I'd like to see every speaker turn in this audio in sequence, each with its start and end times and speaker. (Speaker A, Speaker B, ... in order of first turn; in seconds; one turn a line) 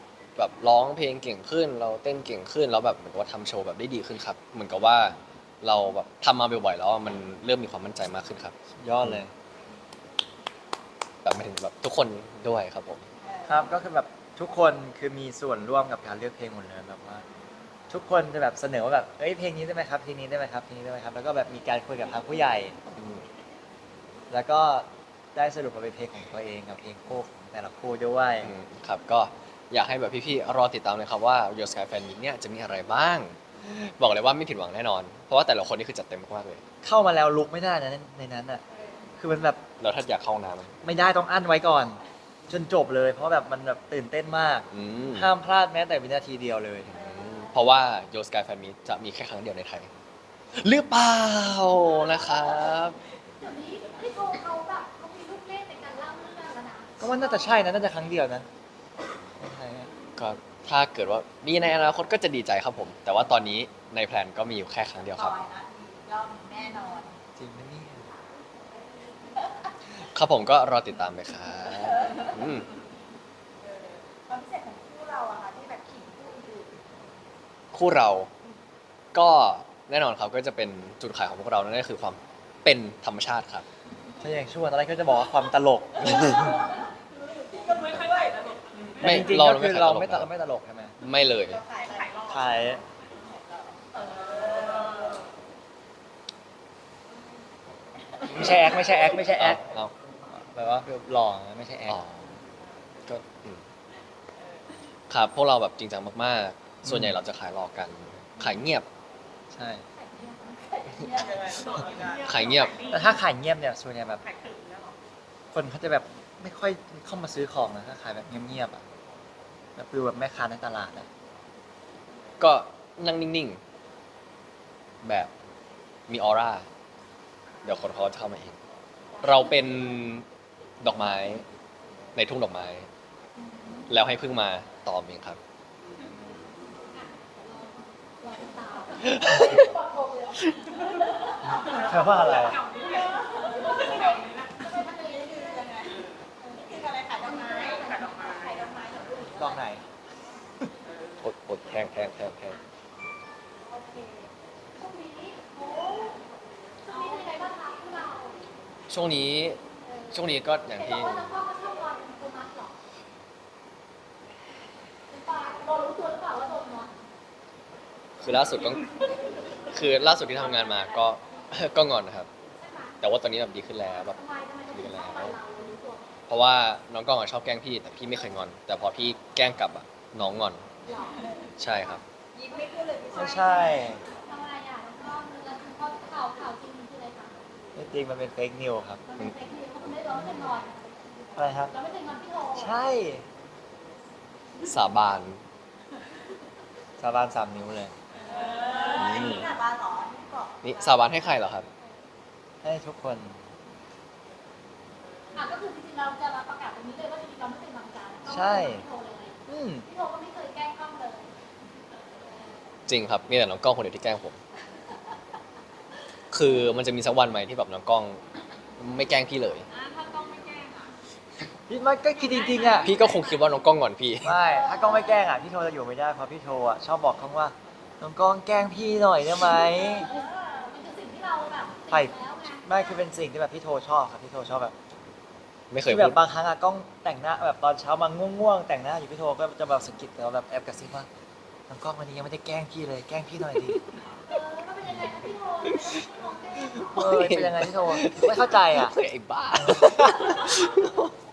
Speaker A: 0.4-9.2
Speaker B: 8.8-9.3
Speaker A: 11.2-13.1
Speaker B: 13.5-17.2
Speaker B: 17.9-22.8
Speaker A: 22.9-23.3
Speaker B: 24.3-28.5
Speaker A: 28.4-36.6
Speaker B: 36.8-38.6
Speaker B: 39.2-39.6
Speaker A: 39.8-40.8
Speaker B: 40.8-46.9
Speaker A: 44.7-45.3
Speaker A: 46.9-49.9
Speaker A: 50.5-53.0
Speaker C: 53.4-57.5
Speaker B: 57.0-58.5
Speaker B: 59.4-59.9
Speaker A: 60.2-65.4
Speaker D: 65.2-67.1
Speaker B: 67.4-68.1
Speaker A: 70.1-72.7
Speaker D: 74.1-76.8
Speaker A: 77.7-78.3
Speaker A: 79.1-83.7
Speaker B: 84.2-86.6
Speaker A: 86.1-86.5
Speaker D: 87.5-88.4
Speaker B: 89.0-91.0
Speaker A: 89.0-90.3
Speaker A: 91.0-91.6
Speaker D: 91.7-92.4
Speaker B: 92.3-92.8
Speaker D: 94.4-94.7
Speaker B: 98.2-99.6
Speaker A: 99.4-99.9
Speaker B: 100.3-102.0
Speaker A: 101.9-102.4
Speaker A: 103.1-103.6
Speaker A: 105.1-108.9
Speaker B: 106.8-107.2
Speaker B: 109.5-109.8
Speaker C: 110.0-111.6
Speaker D: 111.0-112.3
Speaker A: 112.2-112.8
Speaker B: 112.9-114.2
Speaker D: 114.3-114.9
Speaker B: 115.5-118.8
Speaker B: 119.8-121.1
Speaker A: 122.4-123.6
Speaker A: 125.0-125.3
Speaker A: 126.1-126.7
Speaker A: 127.6-128.6
Speaker A: 129.2-130.3
Speaker A: 130.8-131.5
Speaker A: 132.2-132.9
Speaker C: 133.4-133.9
Speaker A: 133.9-135.4
Speaker C: 136.9-140.5
Speaker A: 139.2-139.5
Speaker C: 141.3-141.6
Speaker B: 141.7-142.6
Speaker C: 142.9-145.7
Speaker D: 144.2-146.0
Speaker D: 146.6-149.6
Speaker C: 147.2-148.7
Speaker B: 149.4-149.8
Speaker A: 151.2-152.6
Speaker C: 154.8-156.2
Speaker C: 156.8-158.4
Speaker A: 158.9-159.6
Speaker C: 159.9-162.8
Speaker A: 160.1-161.3
Speaker C: 165.1-167.0
Speaker A: 168.2-168.9
Speaker A: 169.7-172.3
Speaker C: 172.6-173.0
Speaker A: 173.0-174.2
Speaker C: 174.1-176.1
Speaker A: 174.7-175.4
Speaker A: 176.3-180.7
Speaker C: 180.9-181.3
Speaker A: 181.6-182.0
Speaker D: 182.3-183.9
Speaker B: 183.1-184.0
Speaker C: 183.2-187.6
Speaker B: 187.8-189.0
Speaker C: 189.1-192.7
Speaker B: 191.4-191.7
Speaker B: 192.6-193.2
Speaker A: 194.6-195.4
Speaker B: 197.0-197.9
Speaker D: 198.3-200.8
Speaker A: 199.0-199.6
Speaker A: 200.6-201.7
Speaker B: 202.6-203.4
Speaker C: 205.3-211.3
Speaker B: 208.3-208.8
Speaker B: 209.5-209.9
Speaker A: 212.9-214.4
Speaker A: 216.3-218.2
Speaker A: 218.8-219.7
Speaker D: 219.7-220.9
Speaker B: 221.7-222.9
Speaker C: 222.7-223.1
Speaker A: 222.8-224.3
Speaker B: 224.2-230.1
Speaker C: 230.2-232.8
Speaker B: 231.9-234.7
Speaker A: 235.7-236.2
Speaker B: 235.8-241.1
Speaker B: 241.7-243.8
Speaker C: 244.3-247.2
Speaker A: 246.7-251.1
Speaker B: 246.9-248.9
Speaker B: 249.8-250.1